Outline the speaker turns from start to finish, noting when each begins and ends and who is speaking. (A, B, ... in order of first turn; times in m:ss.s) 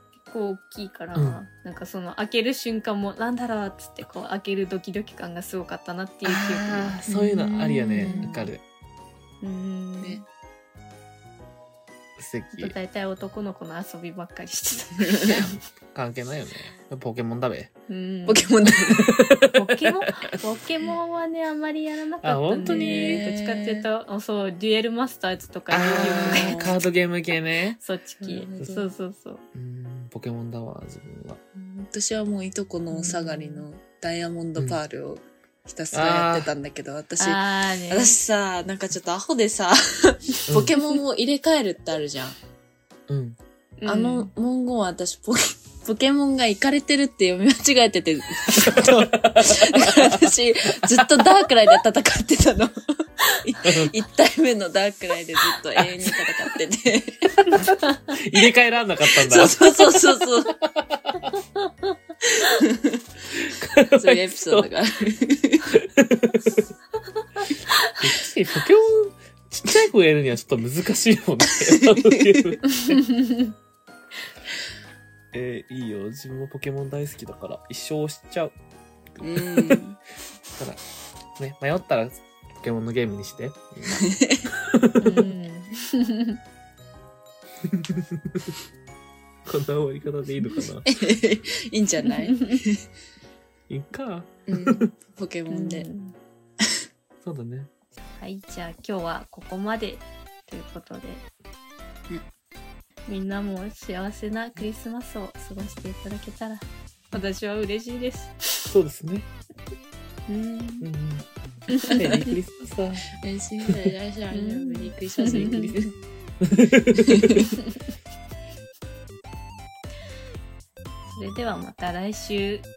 0:00.3-0:07.0 A
0:01.2-0:01.4 B
0:06.2-0:08.6 B
0:07.1-0:08.5 C
0:08.0-0:08.4 A
0:09.4-0:10.2 A
0:12.2-0:12.8 B
0:12.6-0:15.5 A
0:15.1-0:15.4 C
0:15.3-0:17.7 B
0:17.9-0:18.5 A
0:18.3-0:19.2 C
0:19.0-0:19.6 B
0:19.6-0:26.6 A
0:22.2-0:23.2 B
0:22.6-0:23.9 C
0:25.7-0:27.8 B
0:25.8-0:26.8 C
0:27.8-0:29.4 A
0:28.2-0:28.9 C
0:28.6-0:28.8 B
0:29.5-0:31.4 B
0:31.6-0:42.4 C
0:32.9-0:33.7 A
0:35.9-0:36.5 B
0:37.2-0:38.2 A
0:40.5-0:40.8 B
0:43.1-0:43.4 B
0:43.8-0:44.3 A
0:43.9-0:57.6 C
0:48.6-0:50.2 B
0:50.8-0:51.1 B
0:53.6-0:53.9 B
0:55.8-0:56.2 B
0:57.5-1:01.4 B
0:59.2-1:00.6 C
1:02.4-1:03.0 C
1:03.3-1:04.7 B
1:04.0-1:05.8 C
1:05.7-1:06.6 B
1:08.0-1:13.0 B
1:12.8-1:13.5 A
1:15.3-1:18.6 B
1:19.2-1:19.8 B
1:19.2-1:20.0 C
1:20.6-1:20.8 B
1:21.4-1:25.3 B
1:24.0-1:24.5 C
1:25.0-1:26.4 A
1:27.7-1:28.4 B
1:29.4-1:30.9 B
1:30.8-1:32.8 C
1:32.2-1:32.6 A
1:33.7-1:34.9 B
1:34.5-1:35.9 C
1:35.5-1:36.2 A
1:37.2-1:37.7 B
1:38.2-1:41.3 A
1:43.1-1:48.6 A
1:48.7-1:49.3 B
1:50.3-1:50.8 C
1:50.8-1:53.1 B
1:51.7-1:52.3 A
1:53.2-1:55.9 C
1:53.7-1:53.9 B
1:54.3-1:55.8 A
1:56.4-1:57.5 B
1:57.1-1:57.4 C
2:01.1-2:02.7 A